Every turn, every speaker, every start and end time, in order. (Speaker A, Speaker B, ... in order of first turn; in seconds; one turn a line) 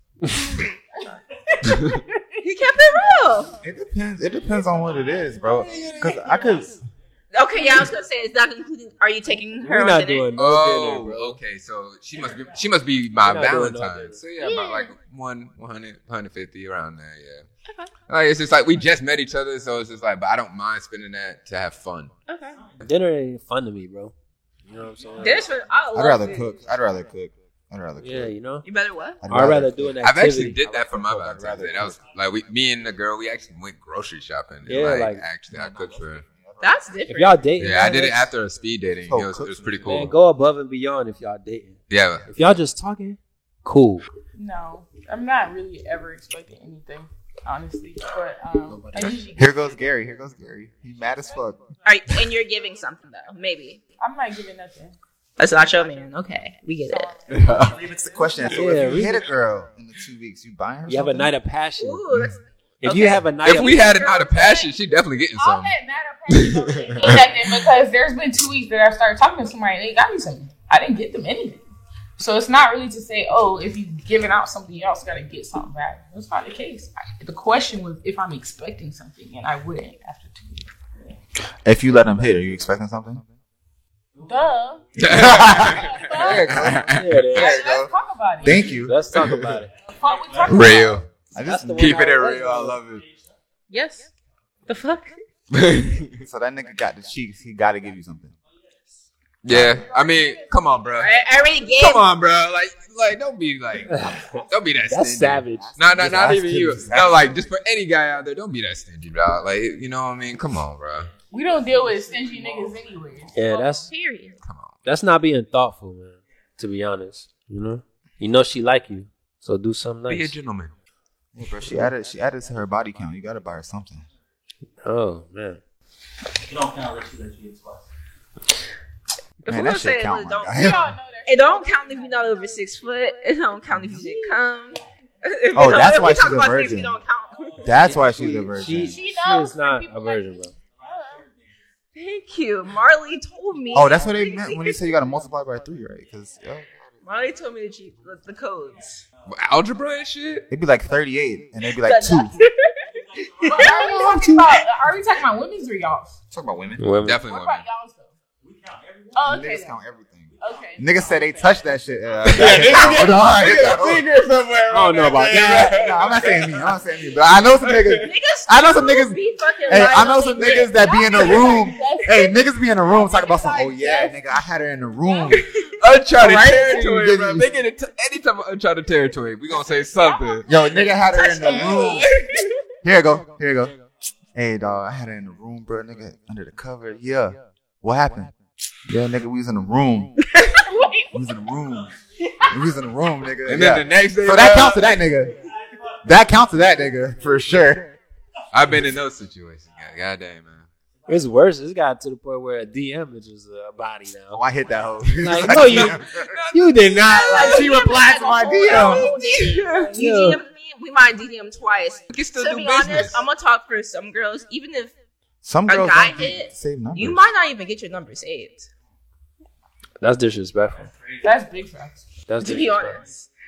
Speaker A: 1.6-2.0
Speaker B: 1.6-1.9
Speaker C: 2.4-3.5
Speaker D: 3.6-6.8
Speaker C: 7.3-10.3
Speaker E: 9.6-11.4
Speaker B: 10.3-17.4
Speaker E: 13.2-14.2
Speaker C: 14.4-14.9
Speaker C: 17.7-17.9
Speaker B: 18.1-22.1
Speaker C: 22.3-22.6
Speaker E: 22.8-24.1
Speaker E: 24.7-25.4
Speaker F: 24.8-25.5
Speaker C: 25.2-26.5
Speaker D: 25.9-28.3
Speaker E: 28.0-28.6
Speaker C: 28.6-29.2
Speaker D: 29.2-30.1
Speaker E: 29.3-30.6
Speaker B: 30.0-36.2
Speaker D: 30.6-32.0
Speaker E: 34.7-35.2
Speaker D: 35.5-37.0
Speaker C: 36.6-37.9
Speaker E: 37.1-38.3
Speaker B: 37.6-40.1
Speaker D: 39.1-39.9
Speaker E: 39.8-44.0
Speaker B: 41.9-42.3
Speaker A: 44.4-49.8
Speaker E: 48.7-49.2
Speaker D: 49.3-51.6
Speaker C: 51.9-53.8
Speaker A: 54.0-54.9
Speaker C: 55.4-57.2
Speaker A: 56.9-57.8
Speaker B: 57.3-57.8
Speaker D: 57.5-61.3
Speaker E: 58.5-59.2
Speaker E: 60.9-62.0
Speaker C: 61.8-64.7
Speaker E: 62.8-63.8
Speaker B: 63.4-65.7
Speaker A: 65.3-71.6
Speaker B: 66.3-67.6
Speaker A: 72.2-80.7
Speaker D: 81.6-83.2
Speaker F: 84.2-84.5
Speaker A: 84.2-86.7
Speaker B: 85.0-87.3
Speaker D: 85.1-89.0
Speaker E: 86.2-87.6
Speaker A: 87.3-88.8
Speaker E: 88.5-89.7
Speaker B: 89.1-89.6
Speaker A: 89.9-91.0
Speaker F: 90.0-90.6
Speaker B: 90.5-91.0
Speaker D: 90.5-92.0
Speaker E: 91.4-92.8
Speaker B: 91.8-93.0
Speaker C: 93.7-94.0
Speaker A: 93.7-94.0
Speaker C: 94.7-95.1
Speaker B: 95.5-96.2
Speaker D: 96.2-98.3
Speaker B: 99.4-101.1
Speaker D: 99.5-99.7
Speaker A: 99.5-101.0
Speaker C: 101.0-102.1
Speaker B: 101.7-111.1
Speaker E: 103.9-105.7
Speaker D: 105.5-107.4
Speaker A: 111.3-113.4
Speaker F: 111.5-113.3
Speaker E: 113.3-113.9
Speaker C: 113.5-114.4
Speaker B: 114.4-114.8
Speaker E: 114.8-120.3
Speaker B: 120.1-120.7
Speaker D: 121.3-124.0
Speaker E: 124.8-125.6
Speaker F: 126.5-127.8
Speaker C: 129.4-137.7
Speaker D: 129.5-130.9
Speaker A: 130.5-132.6
Speaker A: 133.9-134.3
Speaker D: 135.5-137.0
Speaker F: 137.4-138.1
Speaker D: 137.6-139.0
Speaker E: 137.8-140.5
Speaker A: 138.6-141.2
Speaker F: 140.8-141.2
Speaker C: 141.9-144.8
Speaker D: 143.7-146.7
Speaker C: 147.0-149.0
Speaker B: 149.3-150.5
Speaker D: 150.5-152.4
Speaker C: 151.8-152.8
Speaker F: 153.0-153.7
Speaker A: 153.4-156.2
Speaker C: 153.5-153.8
Speaker D: 153.6-154.5
Speaker D: 156.3-156.9
Speaker E: 156.8-157.2
Speaker B: 157.0-157.7
Speaker A: 157.2-158.1
Speaker F: 158.4-159.4
Speaker A: 159.1-159.8
Speaker D: 159.2-164.1
Speaker A: 160.4-160.9
Speaker F: 160.4-161.5
Speaker B: 162.2-166.8
Speaker E: 164.7-165.8
Speaker D: 165.2-175.4
Speaker B: 167.6-168.1
Speaker C: 168.0-171.9
Speaker A: 170.1-174.2
Speaker A: 175.1-175.7
Speaker B: 175.6-180.5
Speaker D: 176.1-177.5
Speaker A: 180.0-182.2
Speaker D: 180.4-182.1
Speaker C: 181.4-181.9
Speaker B: 182.0-182.3
Speaker D: 182.8-183.8
Speaker D: 184.3-188.3
Speaker D: 188.9-190.1
Speaker C: 190.3-190.6
Speaker A: 190.6-191.2
Speaker D: 191.1-191.9
Speaker D: 192.5-195.3
Speaker B: 193.4-194.9
Speaker F: 195.2-196.0
Speaker D: 196.0-197.9
Speaker B: 198.5-200.7
Speaker E: 201.1-204.4
Speaker D: 204.3-206.4
Speaker E: 205.2-206.0
Speaker B: 205.4-206.8
Speaker E: 206.5-207.7
Speaker C: 207.1-214.9
Speaker D: 207.3-209.4
Speaker A: 208.7-209.0
Speaker E: 209.9-210.4
Speaker B: 212.1-213.2
Speaker D: 215.4-217.2
Speaker C: 215.7-218.7
Speaker E: 220.0-220.9
Speaker F: 220.7-221.3
Speaker A: 221.2-222.0
Speaker E: 222.3-223.0
Speaker C: 222.4-223.3